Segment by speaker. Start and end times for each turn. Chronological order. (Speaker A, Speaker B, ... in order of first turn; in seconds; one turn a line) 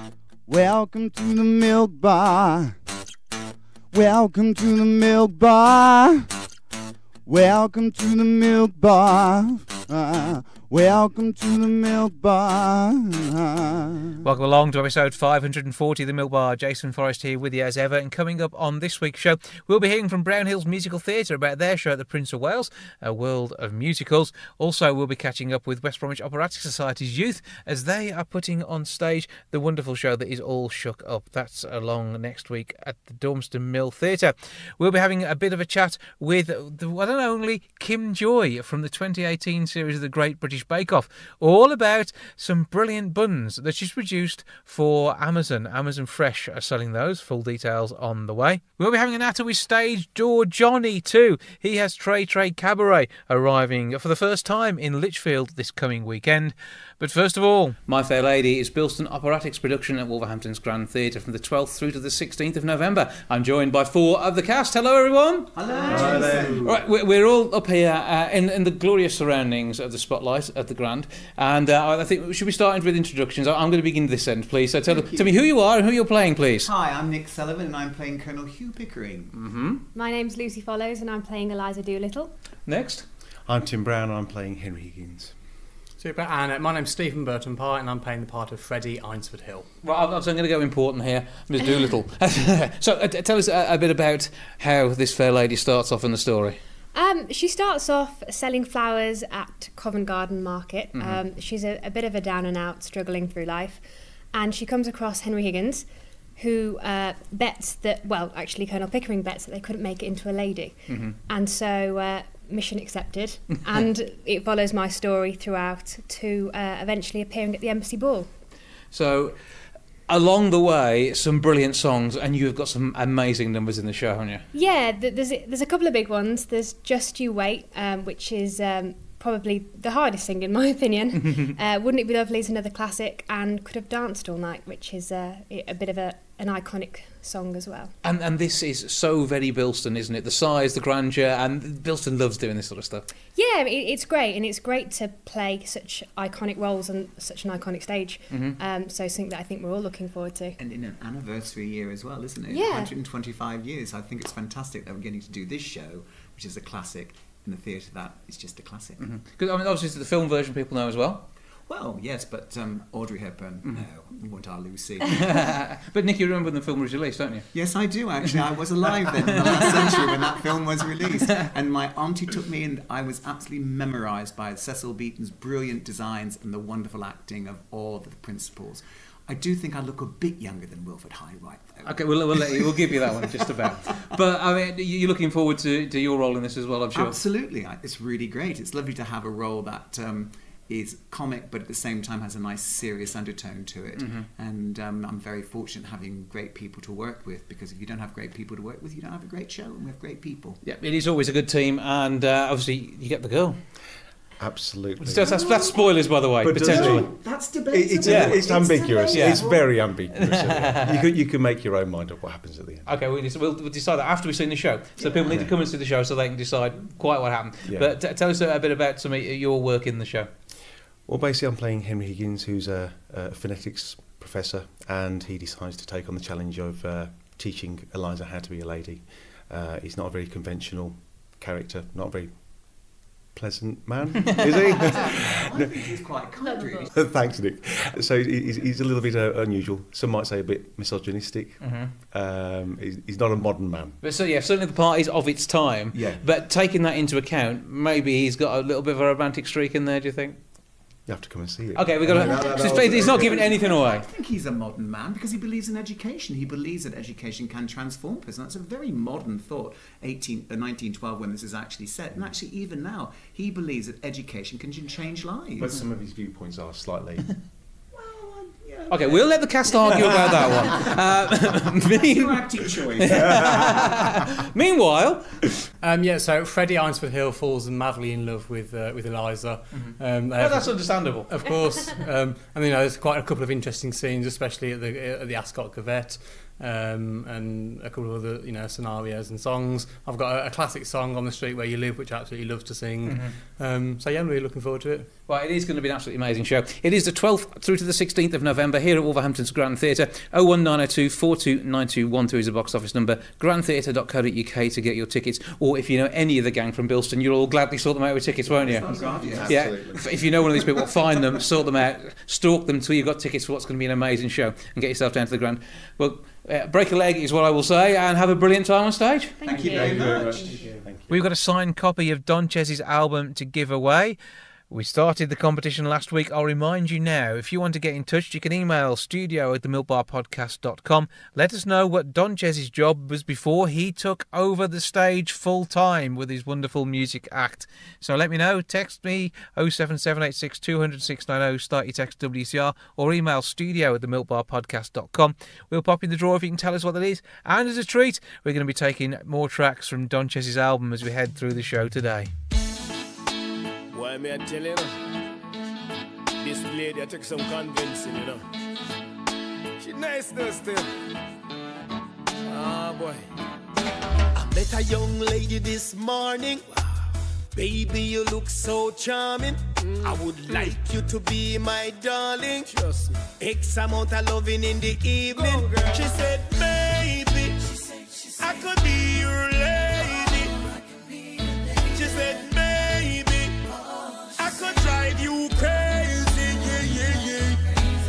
Speaker A: 0.5-2.8
Speaker A: 3.9-6.3
Speaker A: 7.3-14.2
Speaker B: 14.2-76.7
Speaker C: 65.5-66.8
Speaker D: 65.8-66.7
Speaker C: 74.8-75.5
Speaker C: 76.6-79.4
Speaker B: 79.3-79.8
Speaker E: 79.9-82.3
Speaker B: 82.7-83.0
Speaker D: 83.5-85.4
Speaker F: 86.0-89.7
Speaker B: 89.8-96.6
Speaker E: 96.9-105.9
Speaker B: 101.0-101.2
Speaker E: 106.4-118.3
Speaker B: 110.9-111.2
Speaker B: 118.9-119.4
Speaker B: 120.1-124.5
Speaker E: 124.5-137.9
Speaker B: 138.0-143.1
Speaker E: 143.3-150.6
Speaker B: 148.3-148.6
Speaker C: 150.6-159.2
Speaker E: 152.5-152.9
Speaker B: 159.0-161.3
Speaker C: 161.7-165.5
Speaker B: 165.1-167.5
Speaker C: 167.5-184.2
Speaker B: 169.4-169.9
Speaker B: 181.8-187.2
Speaker C: 186.9-200.6
Speaker B: 194.0-194.3
Speaker B: 200.6-203.6
Speaker D: 204.4-205.7
Speaker B: 205.0-207.1
Speaker C: 205.3-205.8
Speaker D: 206.4-212.9
Speaker C: 206.5-209.9
Speaker B: 208.0-208.5
Speaker B: 209.1-211.0
Speaker B: 212.9-220.3
Speaker C: 215.0-215.3
Speaker D: 215.2-215.6
Speaker D: 217.7-217.9
Speaker D: 221.1-235.9
Speaker C: 235.1-236.9
Speaker E: 236.4-236.8
Speaker D: 236.9-244.0
Speaker B: 241.6-241.9
Speaker B: 244.0-250.4
Speaker D: 245.9-246.2
Speaker D: 251.1-253.7
Speaker B: 251.8-254.1
Speaker C: 252.1-265.8
Speaker D: 265.6-267.4
Speaker C: 267.9-270.9
Speaker B: 268.9-275.4
Speaker C: 271.9-273.9
Speaker D: 273.2-273.8
Speaker F: 275.8-295.1
Speaker B: 280.3-281.3
Speaker B: 293.1-293.4
Speaker B: 295.3-308.9
Speaker D: 308.5-311.0
Speaker C: 308.5-309.9
Speaker B: 309.4-319.4
Speaker E: 319.4-320.0
Speaker C: 319.4-320.7
Speaker D: 319.5-321.2
Speaker B: 321.1-324.2
Speaker B: 324.7-352.3
Speaker G: 353.9-355.0
Speaker G: 356.4-358.4
Speaker G: 359.8-360.9
Speaker G: 362.5-363.2
Speaker H: 364.4-366.6
Speaker H: 367.5-372.7
Speaker G: 369.8-370.8
Speaker G: 372.7-373.2
Speaker H: 373.4-377.7
Speaker G: 375.3-376.2
Speaker H: 378.4-380.6
Speaker H: 381.8-383.6
Speaker H: 384.4-387.6